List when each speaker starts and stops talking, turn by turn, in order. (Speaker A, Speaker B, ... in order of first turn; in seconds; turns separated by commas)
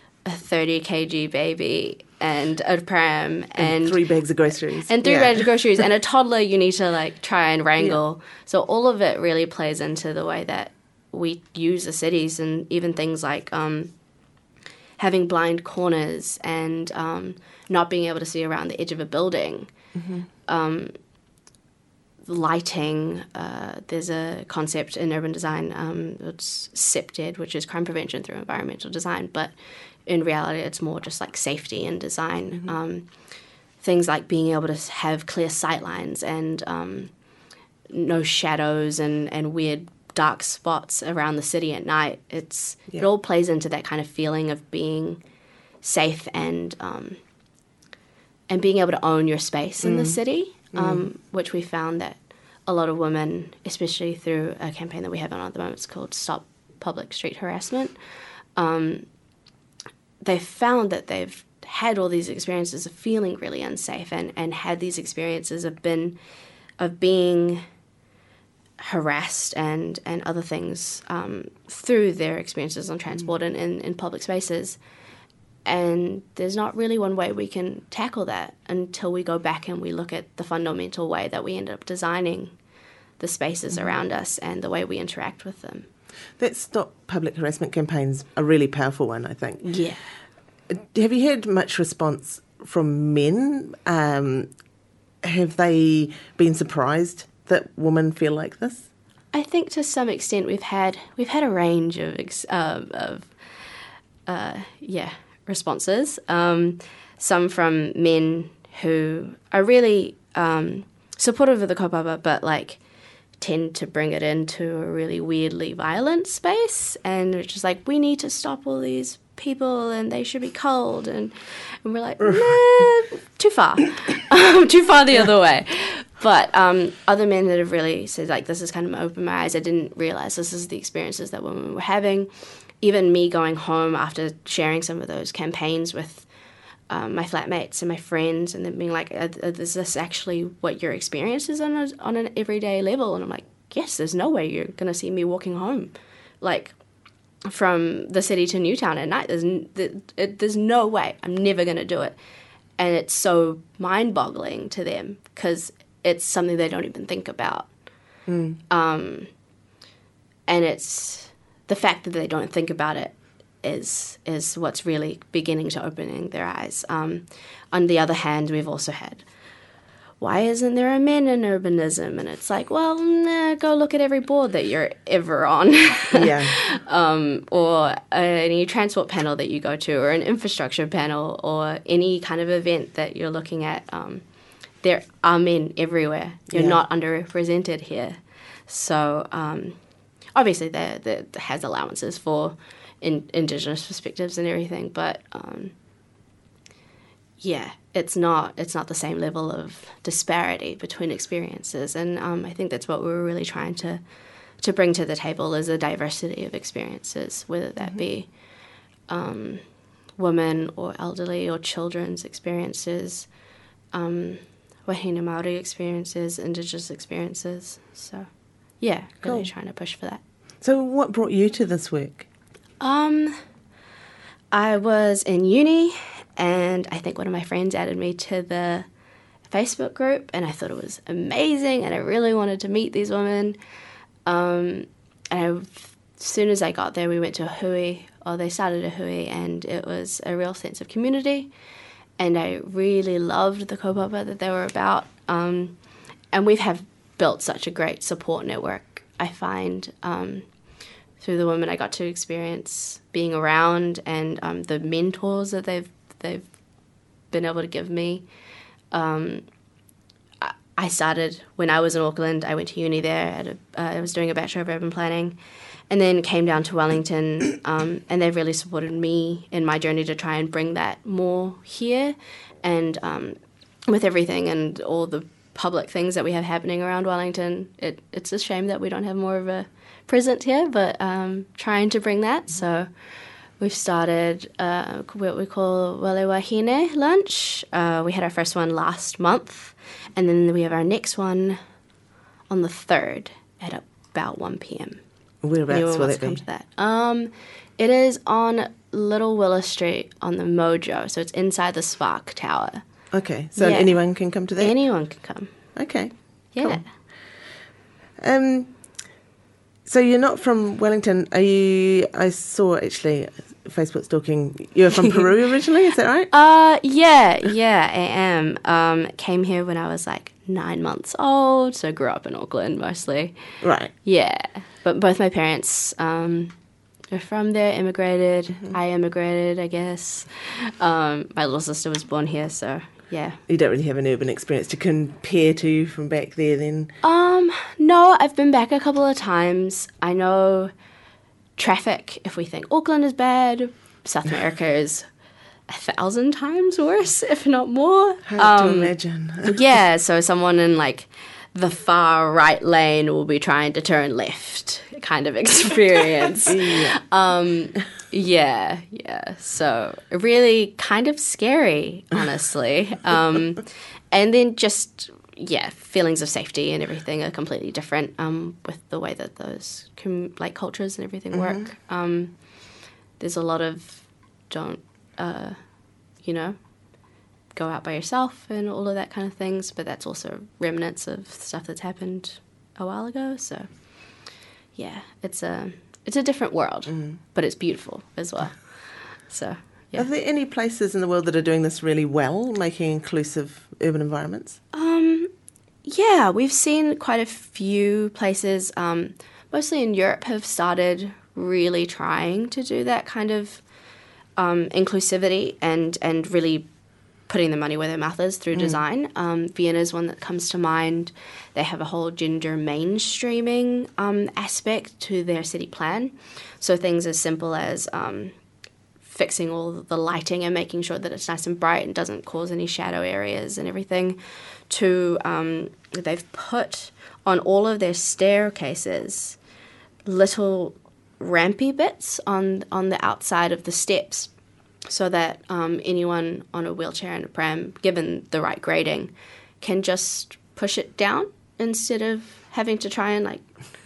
Speaker A: 0.2-13.9, Speaker B: 3.6-5.4, Speaker A: 15.0-19.7, Speaker B: 19.9-20.3, Speaker A: 20.5-20.9, Speaker A: 22.3-29.5, Speaker A: 30.1-33.1, Speaker A: 33.8-37.1, Speaker A: 37.9-45.2, Speaker A: 45.8-47.2, Speaker A: 48.5-58.0, Speaker B: 49.8-50.2, Speaker B: 50.7-51.1, Speaker A: 58.6-59.1, Speaker A: 60.2-66.2, Speaker A: 66.8-67.6, Speaker A: 68.8-74.8, Speaker A: 75.7-82.5, Speaker A: 83.2-85.9, Speaker B: 86.4-89.7, Speaker A: 89.6-90.0, Speaker B: 90.7-94.5, Speaker B: 95.2-98.9, Speaker A: 99.3-103.3, Speaker A: 104.3-112.8, Speaker A: 113.4-136.3, Speaker A: 136.9-146.8, Speaker A: 147.4-152.2, Speaker A: 152.8-157.7, Speaker B: 158.3-158.6, Speaker A: 158.7-159.3, Speaker A: 160.5-169.2, Speaker A: 170.2-184.2, Speaker B: 176.1-176.5, Speaker A: 184.8-189.8, Speaker B: 186.5-186.8, Speaker A: 190.3-195.7, Speaker A: 197.4-204.0, Speaker A: 204.6-208.4, Speaker A: 209.1-209.6, Speaker A: 210.2-213.3, Speaker A: 213.9-218.3, Speaker A: 218.8-220.2, Speaker B: 219.2-219.5, Speaker B: 220.6-222.3, Speaker A: 222.8-223.4, Speaker A: 224.5-228.9, Speaker A: 229.5-233.6, Speaker A: 234.3-241.5, Speaker A: 242.2-245.8, Speaker A: 246.3-250.5, Speaker A: 251.2-256.5, Speaker A: 257.3-258.3, Speaker A: 258.9-259.5, Speaker A: 260.4-265.4, Speaker A: 265.9-282.9, Speaker A: 283.6-291.6, Speaker A: 292.5-295.0, Speaker B: 295.4-296.4, Speaker A: 295.7-302.8, Speaker B: 303.1-304.8, Speaker A: 303.6-305.5, Speaker B: 305.8-307.1, Speaker A: 306.5-306.9, Speaker B: 308.2-308.7, Speaker B: 309.9-316.3, Speaker A: 316.3-323.4, Speaker B: 323.6-323.9, Speaker A: 324.0-326.6, Speaker A: 327.1-333.4, Speaker B: 333.5-336.9, Speaker A: 337.0-340.7, Speaker A: 341.6-345.1, Speaker A: 345.7-372.4, Speaker B: 348.3-349.6, Speaker B: 356.5-357.0, Speaker B: 371.3-371.6, Speaker A: 373.2-375.6, Speaker A: 376.2-376.6, Speaker A: 377.5-390.1, Speaker B: 386.9-387.2, Speaker B: 389.9-394.6, Speaker A: 394.7-395.3, Speaker A: 395.8-403.6, Speaker A: 404.4-406.7, Speaker A: 407.3-418.3, Speaker B: 408.5-408.8, Speaker A: 419.0-429.4, Speaker A: 430.1-434.3, Speaker A: 434.9-443.5